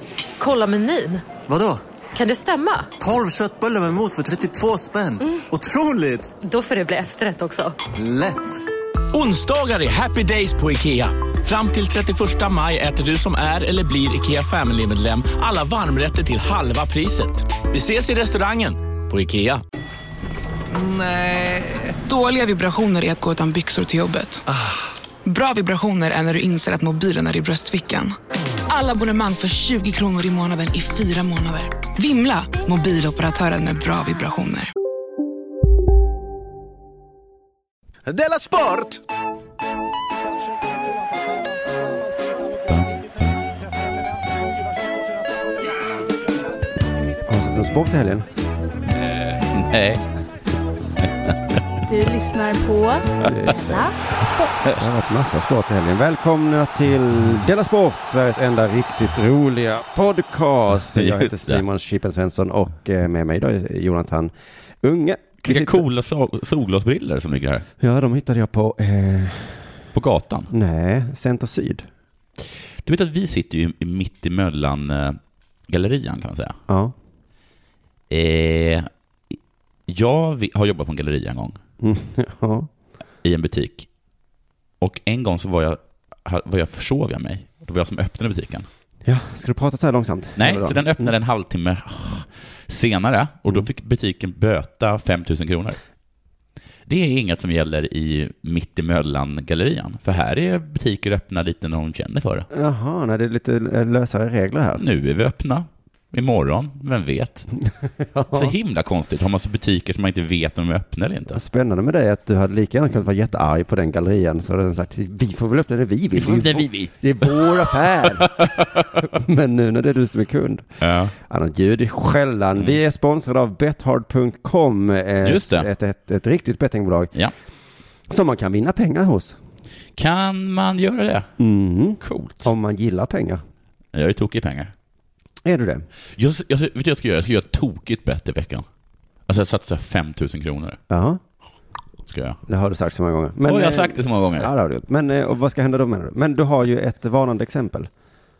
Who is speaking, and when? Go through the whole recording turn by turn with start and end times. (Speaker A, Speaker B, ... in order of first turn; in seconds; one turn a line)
Speaker A: 0.4-1.2
Speaker B: 1.4-1.8
Speaker A: 2.1-2.9
Speaker B: 3.0-6.3
Speaker A: 6.4-7.8
Speaker B: 7.9-8.6
Speaker C: 9.1-19.6
Speaker C: 20.7-21.9
Speaker D: 22.0-24.4
Speaker C: 24.5-24.8
Speaker D: 25.2-28.1
Speaker D: 28.7-34.7
Speaker C: 38.1-39.0
Speaker E: 42.7-43.4
Speaker F: 47.2-48.3
Speaker E: 49.0-50.0
Speaker G: 51.9-54.6
Speaker F: 53.2-53.9
Speaker F: 54.8-65.8
Speaker E: 60.9-61.6
Speaker E: 65.4-67.6
Speaker F: 67.8-69.7
Speaker E: 69.9-70.5
Speaker F: 70.5-71.9
Speaker E: 72.8-76.5
Speaker F: 76.7-76.9
Speaker E: 78.1-79.3
Speaker E: 79.9-81.6
Speaker F: 81.8-82.7
Speaker E: 83.2-83.9
Speaker E: 84.8-88.7
Speaker F: 89.0-91.1
Speaker E: 90.4-95.8
Speaker E: 96.9-102.5
Speaker F: 102.5-104.8
Speaker E: 104.7-107.5
Speaker F: 108.0-108.5
Speaker E: 108.3-111.4
Speaker F: 111.3-120.7
Speaker E: 116.1-119.0
Speaker E: 120.8-121.1
Speaker F: 121.2-127.1
Speaker E: 125.2-125.7
Speaker F: 128.1-129.4
Speaker E: 129.9-131.3
Speaker F: 131.4-133.4
Speaker E: 132.0-132.5
Speaker E: 133.9-134.7
Speaker F: 135.4-135.8
Speaker E: 136.2-138.6
Speaker E: 139.3-140.8
Speaker F: 140.9-141.2
Speaker E: 142.1-142.4
Speaker F: 142.5-147.9
Speaker E: 143.4-144.5